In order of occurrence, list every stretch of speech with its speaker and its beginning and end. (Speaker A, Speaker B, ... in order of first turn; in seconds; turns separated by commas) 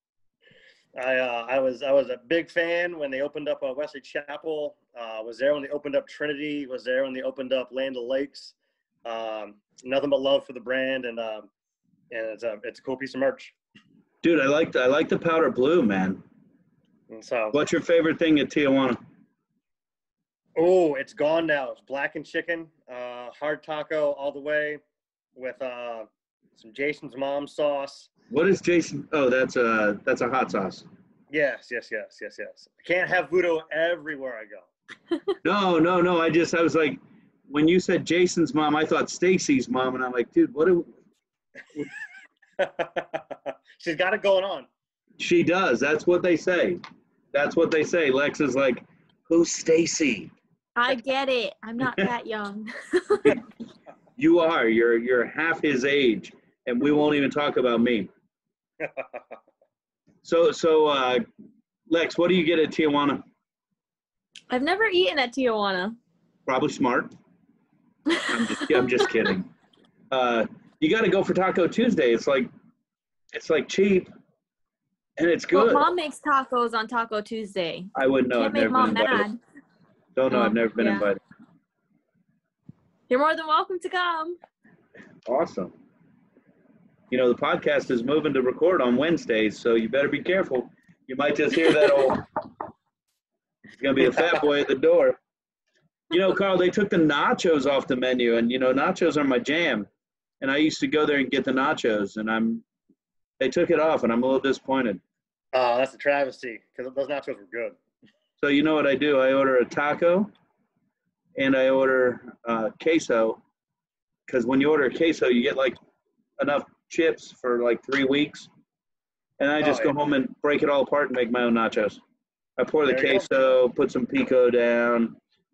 Speaker A: 0.9-8.5, Speaker A: 9.1-11.5, Speaker A: 12.1-13.5, Speaker B: 14.2-16.2, Speaker A: 17.1-17.6, Speaker B: 17.5-19.0, Speaker A: 20.6-24.8, Speaker A: 25.4-28.1, Speaker B: 28.3-30.9, Speaker A: 31.3-34.7, Speaker B: 35.4-40.9, Speaker A: 42.6-44.7, Speaker B: 45.2-46.8, Speaker B: 47.3-50.3, Speaker C: 50.8-53.4, Speaker B: 54.2-58.1, Speaker A: 58.8-59.2, Speaker B: 60.2-61.2, Speaker B: 61.9-63.2, Speaker C: 64.5-66.0, Speaker B: 66.5-67.1, Speaker C: 68.1-68.9, Speaker B: 68.3-69.5, Speaker B: 70.1-72.5, Speaker B: 73.3-74.1, Speaker B: 75.2-75.9, Speaker C: 75.5-79.4, Speaker B: 77.9-79.3, Speaker B: 80.2-81.2, Speaker C: 80.3-81.1, Speaker C: 83.1-84.4, Speaker B: 85.2-85.8, Speaker B: 87.1-92.3, Speaker B: 93.8-95.2, Speaker B: 96.1-99.9, Speaker B: 100.4-102.6, Speaker B: 103.4-105.0, Speaker A: 105.5-107.8, Speaker B: 108.4-110.3, Speaker B: 111.3-113.4, Speaker B: 114.3-115.8, Speaker B: 116.4-118.5, Speaker B: 119.4-122.0, Speaker A: 119.6-119.9, Speaker B: 122.6-125.2, Speaker A: 122.9-123.4